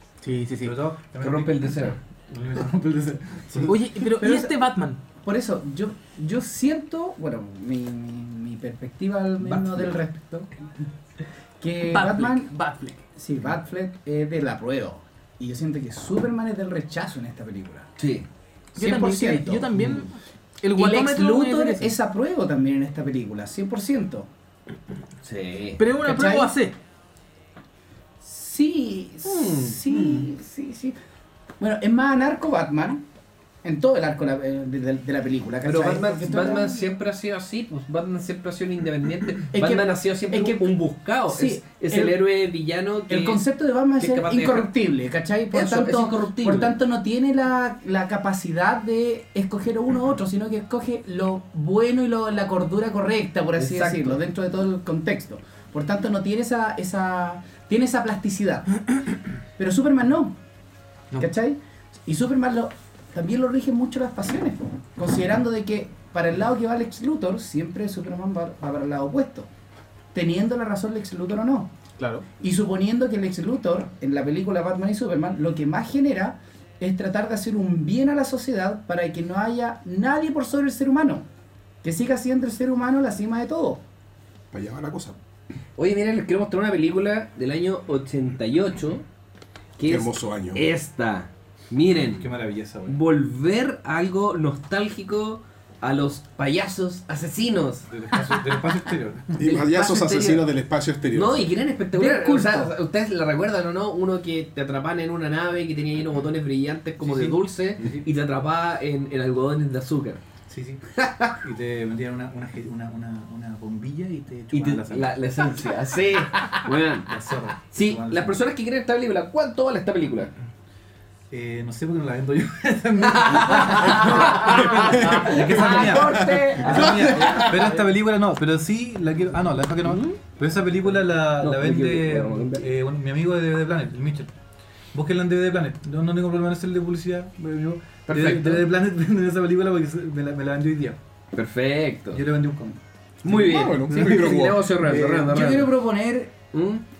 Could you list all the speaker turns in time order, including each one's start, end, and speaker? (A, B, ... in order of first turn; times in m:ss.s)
0:00.2-0:00.8 A
0:00.6-0:04.1 B
0:01.2-0:02.0 C
0:03.7-0:05.0 A
0:04.2-0:04.5 D
0:05.2-0:10.7 D
0:11.6-0:12.5 D
0:11.8-0:13.0 A
0:13.2-0:17.9 D
0:18.0-0:18.3 C
0:18.8-0:20.0 D
0:18.8-0:21.9 A
0:20.8-0:24.3 D
0:25.2-0:25.8 C
0:25.8-0:26.8 A
0:26.0-0:26.5 D
0:28.2-0:31.0 D
0:29.2-0:30.3 C
0:31.6-0:33.0 D
0:33.6-0:36.9 D
0:35.6-0:43.4 C
0:39.5-0:40.7 D
0:41.3-0:42.2 D
0:43.1-0:58.8 D
0:44.0-0:44.7 C
0:45.5-0:46.8 C
0:53.6-0:54.2 C
0:59.6-1:00.4 D
1:01.2-1:09.5 D
1:10.1-1:11.7 D
1:12.0-1:12.2 A
1:12.4-1:21.3 D
1:21.8-1:23.8 D
1:24.5-1:25.2 E
1:25.8-1:29.0 C
1:29.8-1:32.3 C
1:29.8-1:30.6 E
1:32.1-1:33.0 B
1:32.9-1:37.9 C
1:37.9-1:39.4 B
1:39.4-1:41.6 E
1:39.4-1:40.5 C
1:41.1-1:50.2 C
1:41.9-1:42.7 D
1:47.0-1:48.0 B
1:50.5-1:50.8 B
1:51.0-1:51.4 C
1:51.4-1:55.3 B
1:54.5-1:57.1 C
1:57.0-1:58.4 B
1:57.7-2:00.3 C
2:01.3-2:14.3 B
2:03.1-2:07.5 C
2:04.8-2:05.4 E
2:05.4-2:06.9 D
2:06.0-2:06.3 E
2:09.8-2:10.2 C
2:11.3-2:12.7 C
2:14.9-2:21.0 B
2:18.1-2:18.7 C
2:21.3-2:22.2 C
2:22.1-2:22.8 B
2:23.2-2:25.8 C
2:23.3-2:24.7 E
2:23.9-2:24.2 D
2:24.8-2:26.4 D
2:26.5-2:26.8 C